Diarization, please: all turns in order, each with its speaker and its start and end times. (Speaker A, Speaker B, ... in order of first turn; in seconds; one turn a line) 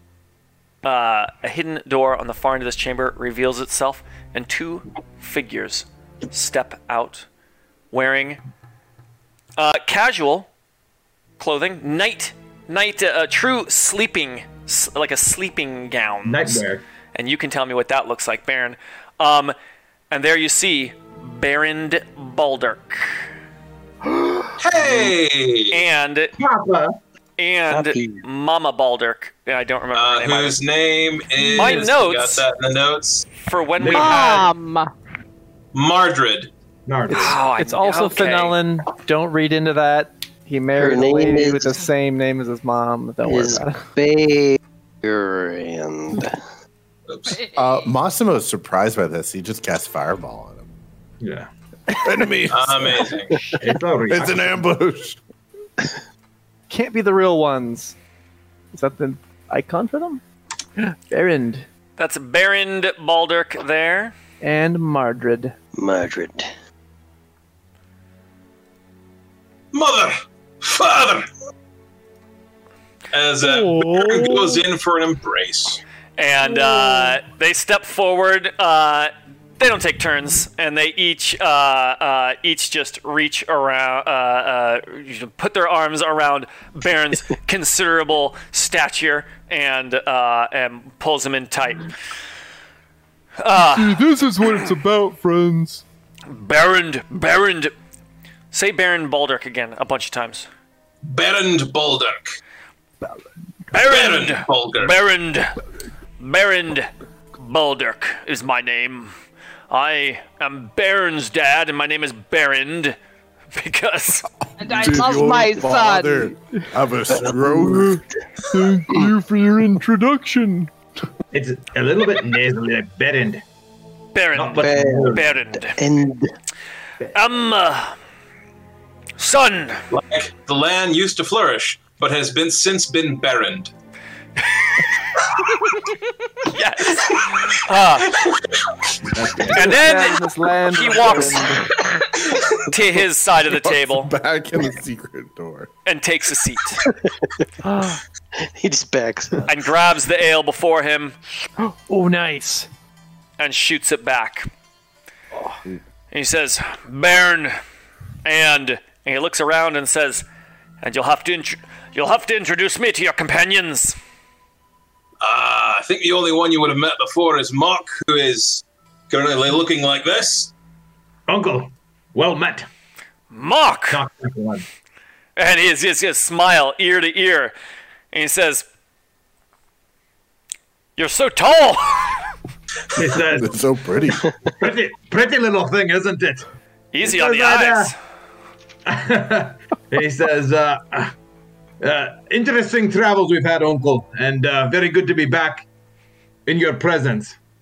Speaker A: 0.8-7.3
Speaker A: 7.9-8.4
Speaker A: 9.6-10.5
Speaker A: 11.4-19.5
Speaker B: 16.2-16.8
Speaker A: 20.1-23.2
Speaker C: 24.6-25.7
Speaker A: 25.7-26.4
Speaker B: 26.4-26.9
Speaker A: 27.4-30.6
Speaker D: 27.7-28.2
Speaker C: 29.9-33.3
Speaker A: 31.6-32.4
Speaker A: 33.4-34.5
Speaker B: 33.8-34.5
Speaker E: 33.8-34.9
Speaker C: 35.7-36.5
Speaker B: 36.9-37.4
Speaker F: 37.1-43.9
Speaker A: 37.1-38.6
Speaker D: 40.8-41.8
Speaker D: 43.2-46.4
Speaker C: 47.1-47.4
Speaker E: 47.3-47.9
Speaker G: 47.5-50.6
Speaker B: 51.2-51.5
Speaker G: 52.0-53.1
Speaker C: 52.5-53.4
Speaker B: 53.6-54.6
Speaker G: 54.1-55.2
Speaker F: 56.7-58.0
Speaker F: 58.7-60.2
Speaker F: 60.8-61.7
Speaker A: 62.0-64.1
Speaker F: 64.4-65.5
Speaker D: 65.8-66.5
Speaker C: 69.7-71.3
Speaker C: 73.1-75.8
Speaker H: 73.4-74.6
Speaker A: 76.2-91.9
Speaker H: 76.5-77.2
Speaker A: 93.4-94.0
Speaker H: 93.6-95.8
Speaker A: 96.3-97.7
Speaker A: 98.5-100.5
Speaker C: 101.0-102.3
Speaker A: 103.7-105.5
Speaker C: 103.9-104.9
Speaker A: 106.2-109.1
Speaker A: 109.7-113.0
Speaker A: 113.5-114.3
Speaker E: 114.6-116.3
Speaker G: 114.7-118.0
Speaker H: 114.7-115.7
Speaker H: 116.3-120.7
Speaker B: 121.3-123.4
Speaker A: 124.1-125.8
Speaker B: 124.3-125.2
Speaker D: 124.6-126.3
Speaker A: 127.1-128.0
Speaker A: 129.2-129.8
Speaker C: 129.9-133.7
Speaker A: 134.4-134.8
Speaker A: 136.4-138.2
Speaker B: 139.1-139.8
Speaker A: 139.5-141.5
Speaker F: 139.6-141.7
Speaker A: 142.7-144.1
Speaker G: 143.5-145.7
Speaker A: 145.8-146.8
Speaker F: 147.6-148.0
Speaker D: 148.3-149.4
Speaker A: 149.5-151.2
Speaker F: 151.6-152.7
Speaker A: 153.4-154.5
Speaker A: 156.1-157.6
Speaker A: 158.2-160.2
Speaker A: 160.8-164.0
Speaker C: 165.2-170.5
Speaker B: 171.3-172.7
Speaker A: 173.3-174.0
Speaker B: 173.9-174.6
Speaker A: 175.3-177.5
Speaker A: 178.1-178.7
Speaker A: 181.0-182.3
Speaker B: 182.9-183.6
Speaker G: 183.3-184.3
Speaker B: 184.6-186.5
Speaker A: 186.9-187.9
Speaker B: 187.0-187.9
Speaker B: 188.8-191.1
Speaker B: 191.8-195.6
Speaker B: 196.4-197.4